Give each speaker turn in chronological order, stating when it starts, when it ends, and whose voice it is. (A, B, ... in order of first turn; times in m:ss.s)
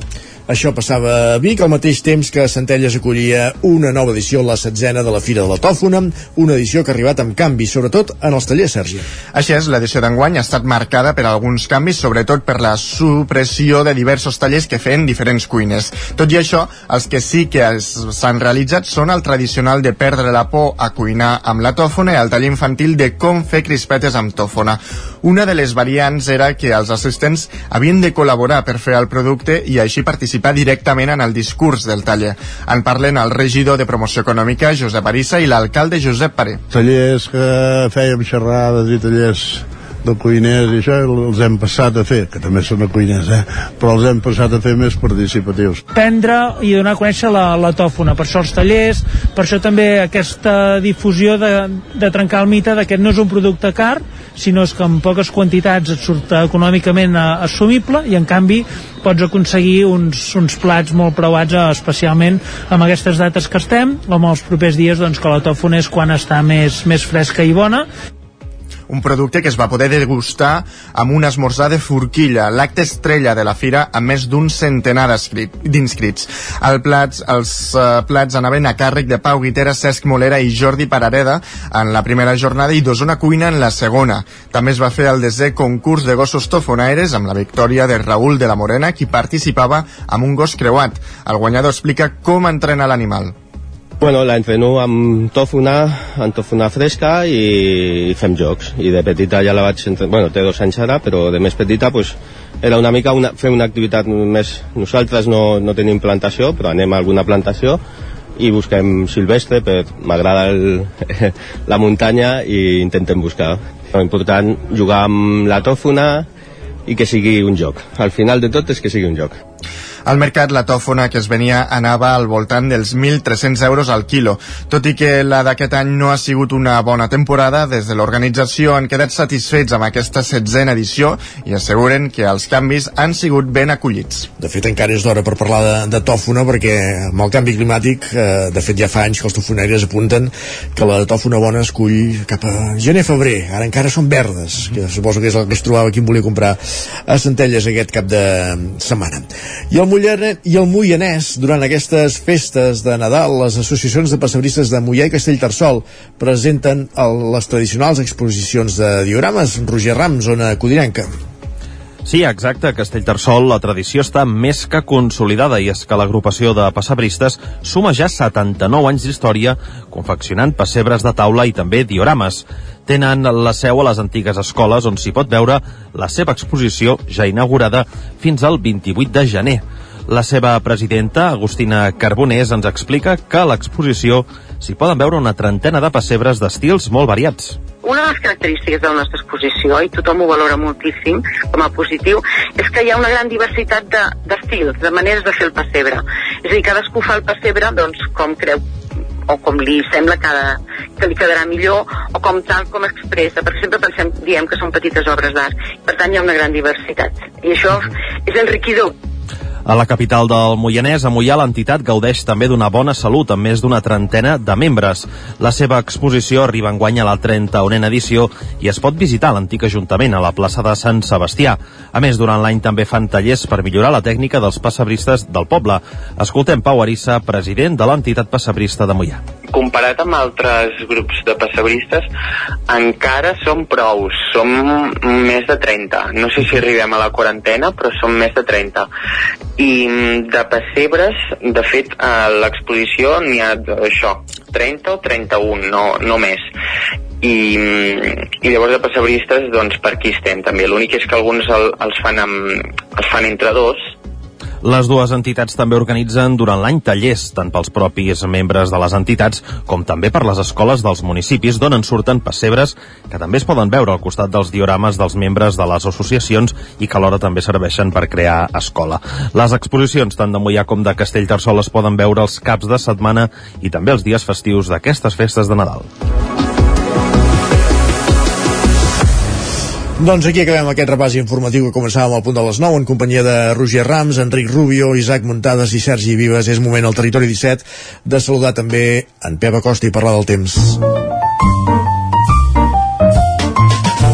0:00.5-0:09.0 A
0:09.3-0:36.6 B
0:36.7-0:45.8 C
0:45.9-1:07.8 D
1:08.9-1:33.3 B
1:34.0-1:47.8 E
1:48.4-1:56.2 E
1:56.8-1:59.4 E
2:00.0-2:14.3 B
2:14.4-2:41.1 A
2:42.0-3:07.6 F
3:07.8-3:18.6 G
3:19.3-3:28.9 G
3:29.6-3:49.2 F
3:49.5-3:52.0 H
3:52.7-3:58.9 H
3:59.6-4:06.4 H
4:07.2-4:13.8 H
4:14.6-4:35.9 F
4:40.0-4:50.8 A